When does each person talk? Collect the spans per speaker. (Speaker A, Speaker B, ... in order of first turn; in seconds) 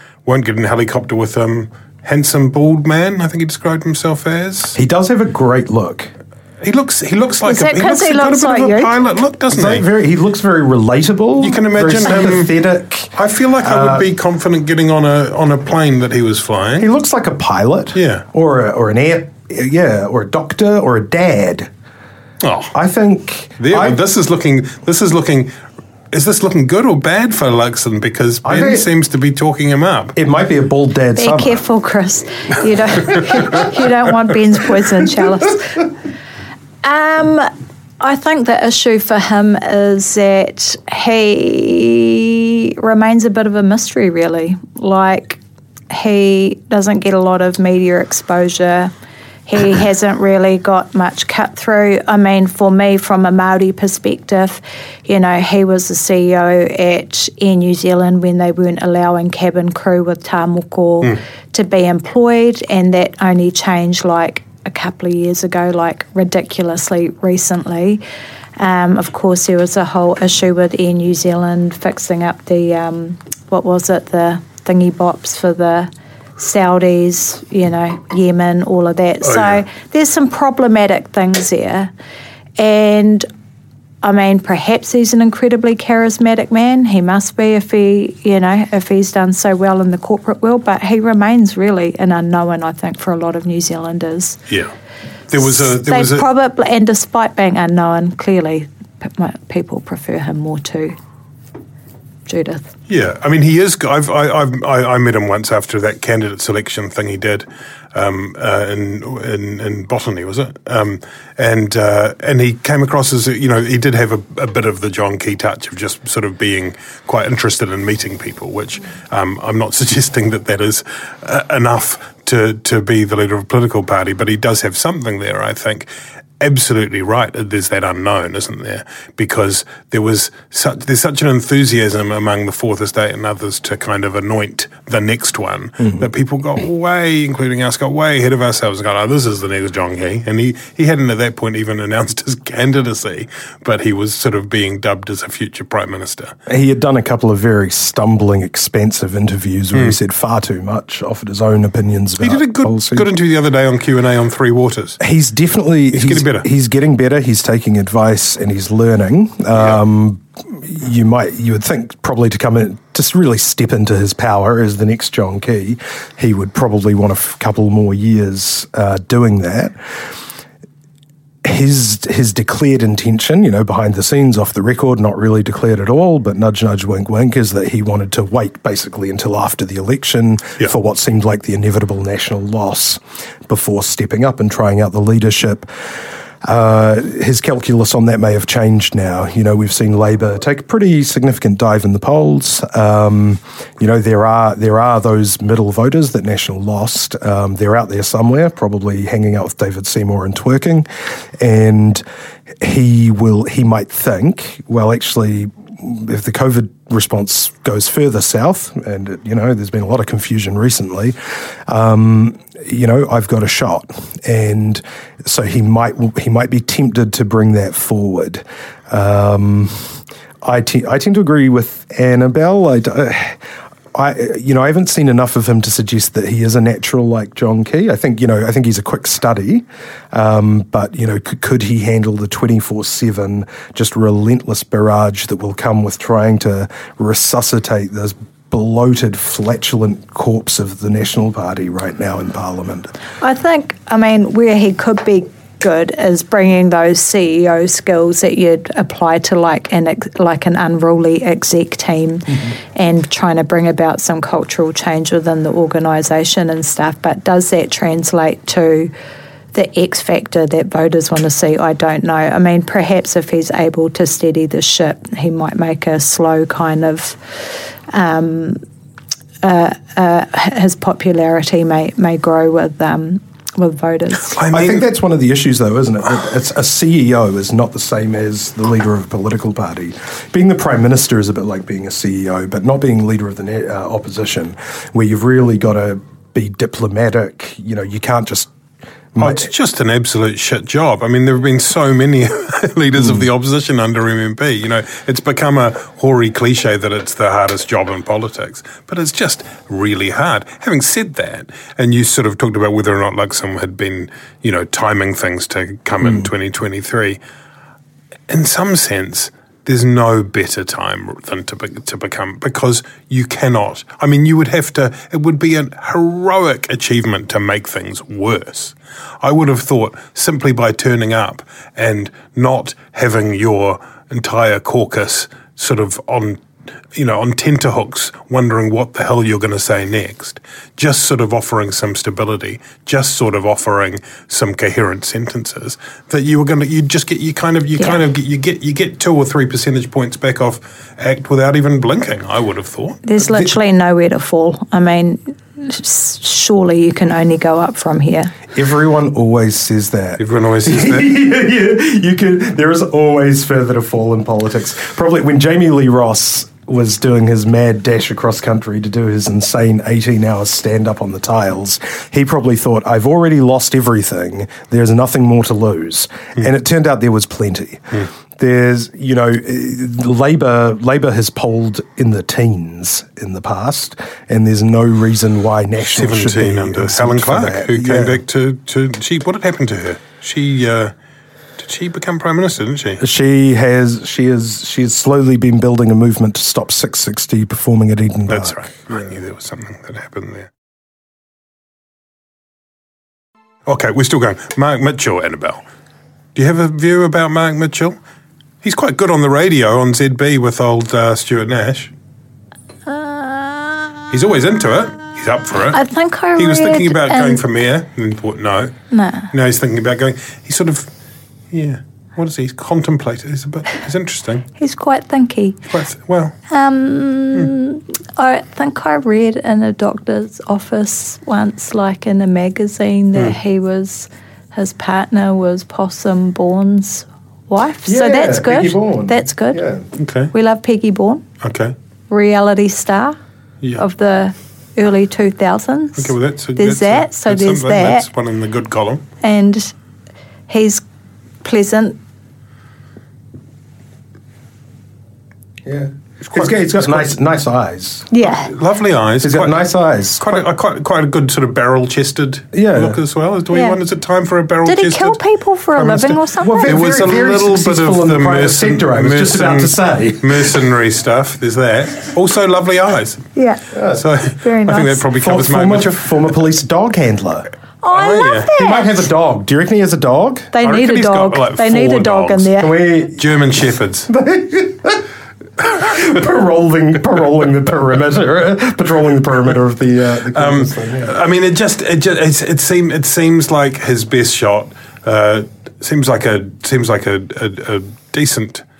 Speaker A: 0.3-4.8, 6.6-9.9, 11.4-12.5, 13.2-16.9, 17.9-18.2, 22.4-22.7, 23.6-25.6, 26.1-30.2, 79.3-79.6, 95.3-96.3, 102.9-125.9, 126.4-146.3, 152.2-155.0, 155.9-156.5, 274.3-274.9, 289.2-307.2, 308.3-326.4, 326.9-343.0, 350.2-351.1, 375.9-380.9, 381.6-383.0, 388.3-390.5, 393.7-395.6, 396.4-398.0, 398.6-401.9, 404.1-405.8, 406.4-408.8, 409.3-410.9, 411.5-414.5, 415.7-416.4, 430.0-430.3, 431.4-431.8, 436.0-439.1, 446.2-447.1, 448.2-455.2, 455.7-463.3, 463.9-466.2, 467.9-468.5, 470.6-474.1, 480.3-488.6
Speaker B: 4.8-6.1, 9.5-14.1, 16.8-21.7, 22.7-24.0, 28.4-28.9, 30.1-31.6, 146.5-153.1, 155.0-169.8, 171.4-185.7, 186.4-200.9, 201.4-202.0, 202.6-211.2, 211.7-223.4, 223.9-242.9, 274.5-288.5, 289.1-289.5, 293.0-293.3, 343.2-343.5, 348.5-378.2, 383.0-388.6, 427.9-429.9, 445.6-448.1, 449.2-450.4, 452.5-453.0, 456.4-460.6, 463.7-464.0, 465.1-467.5, 468.4-470.6, 472.6-473.4, 474.1-475.1, 475.7-481.1
Speaker C: 7.5-8.9, 31.2-35.8, 36.8-45.4, 45.9-48.9, 49.5-68.0, 68.6-81.9, 82.6-83.3, 84.0-94.4, 95.4-101.0, 102.3-102.7, 243.2-258.9, 259.5-268.6, 269.4-274.4, 343.0-348.4, 402.9-404.0, 405.7-407.4, 408.9-409.3, 414.6-415.6, 416.5-429.6, 430.3-431.3, 432.1-433.2, 433.8-438.1, 439.2-439.7, 440.5-440.8, 441.4-442.0, 448.1-448.5, 453.5-453.8, 454.6-456.8, 463.4-463.6, 464.4-465.0, 467.8-468.9, 470.5-472.7